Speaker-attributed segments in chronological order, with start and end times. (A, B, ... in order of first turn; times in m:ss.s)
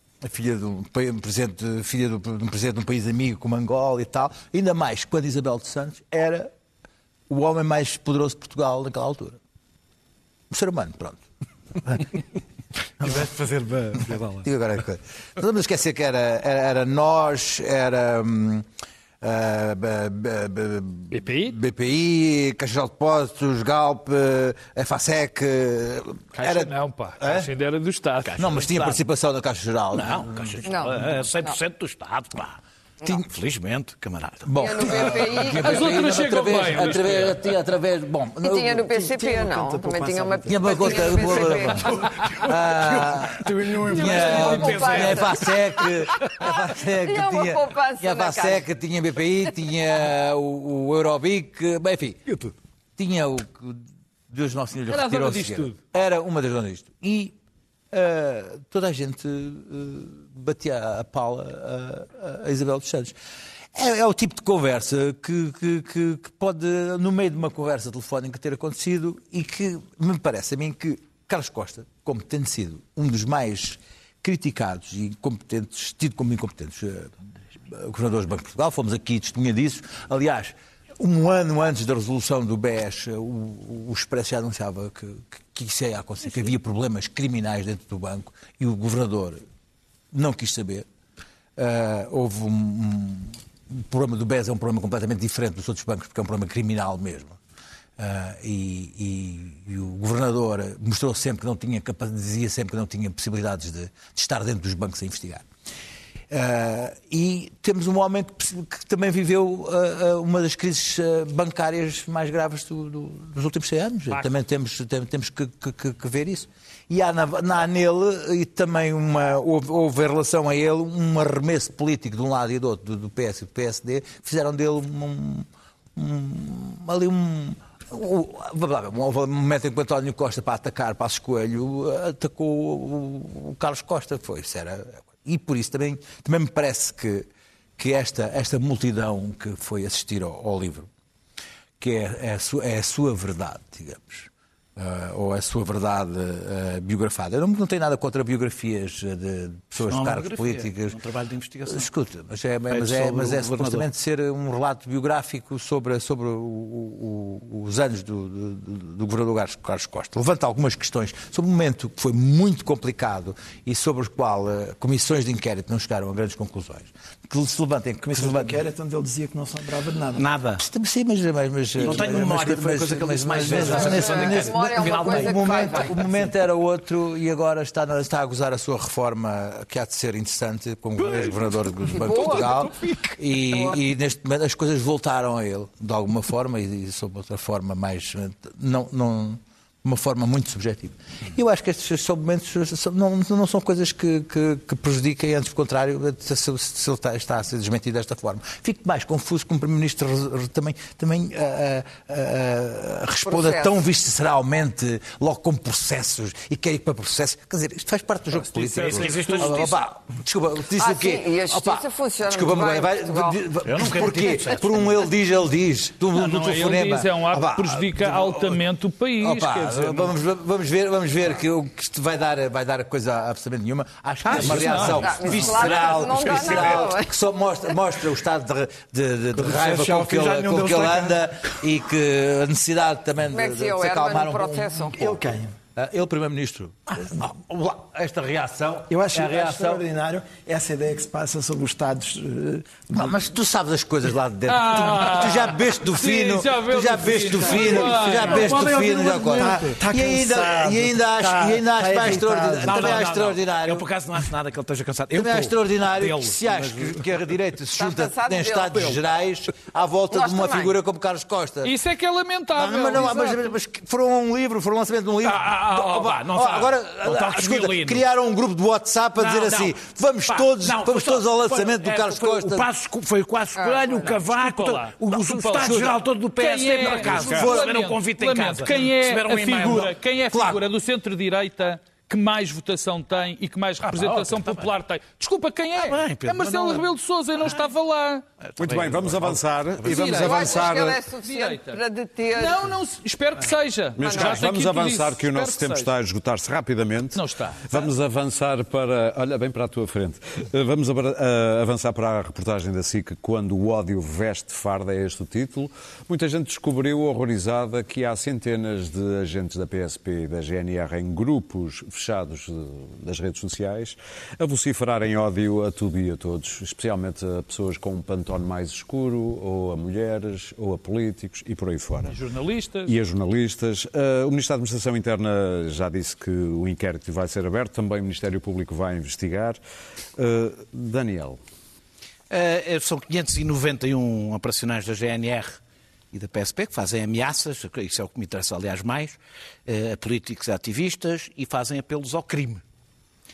0:00.2-0:06.5 A
0:07.3-0:09.4 A
0:10.5-0:11.2 A
0:11.8-0:12.1 A
0:13.0-0:13.3 A
0:13.0-0:14.4 B
0:14.0-0:18.7 A
0:19.2-0:27.5 A
0:21.1-0:21.6 C
0:26.3-0:28.7 C
0:28.3-0:29.0 B
0:28.4-0:30.7 A
0:29.9-0:35.2 B
0:30.6-0:31.6 D
0:34.4-0:39.6 A
0:34.6-0:36.1 D
0:35.6-0:37.4 C
0:38.4-0:42.0 D
0:39.4-0:45.6 B
0:40.4-0:52.2 A
0:43.9-0:48.7 D
0:53.0-0:57.4 A
0:54.9-0:55.8 C
0:57.9-1:03.1 A
1:03.7-1:17.2 A
1:17.7-1:29.4 A
1:30.1-1:30.9 A
1:31.6-1:37.4 A
1:38.0-1:45.5 A
1:46.3-2:20.9 A
1:54.1-1:54.4 C
2:21.8-2:31.0 A
2:29.8-2:31.9 B
2:31.7-2:48.6 A
2:32.7-2:33.9 B
2:48.0-2:50.2 E
2:50.2-2:50.6 B
2:50.6-3:38.6 A
2:51.8-2:56.2 B
2:51.8-2:53.4 E
2:53.5-2:56.1 D
3:01.1-3:01.3 B
3:01.9-3:02.7 D
3:02.0-3:03.0 B
3:03.5-3:03.8 D
3:23.3-3:23.8 D
3:28.3-3:29.6 C
3:28.7-3:29.8 B
3:30.8-3:33.5 D
3:33.6-3:35.0 B
3:36.1-3:40.1 C
3:39.2-3:55.1 A
3:44.2-3:45.1 C
3:44.3-3:45.5 B
3:44.9-3:47.2 D
3:49.4-3:51.2 E
3:53.3-3:55.2 D
3:54.9-3:55.6 E
3:55.8-3:59.9 A
3:58.9-4:03.2 E
4:02.9-4:13.9 A
4:04.5-4:08.5 C
4:07.4-4:13.1 E
4:08.3-4:09.7 B
4:12.6-4:17.0 B
4:15.1-4:21.7 A
4:17.7-4:19.0 D
4:20.1-4:20.8 D
4:21.6-4:23.4 C
4:22.6-4:32.7 A
4:25.2-4:28.1 B
4:29.2-4:40.0 B
4:33.6-4:34.2 D
4:34.3-4:48.2 C
4:37.0-4:37.7 A
4:40.3-4:40.6 A
4:43.8-4:44.7 B
4:45.8-4:46.9 B
4:48.4-4:50.1 B
4:48.6-4:51.0 F
4:49.8-4:51.8 C
4:50.0-4:52.7 D
4:52.3-4:55.9 C
4:54.0-5:22.2 F
4:54.0-4:54.5 D
4:57.1-4:57.9 C
5:22.0-5:23.0 C
5:22.9-5:29.6 F
5:30.2-5:31.4 F
5:32.3-5:35.6 B
5:36.1-5:42.6 B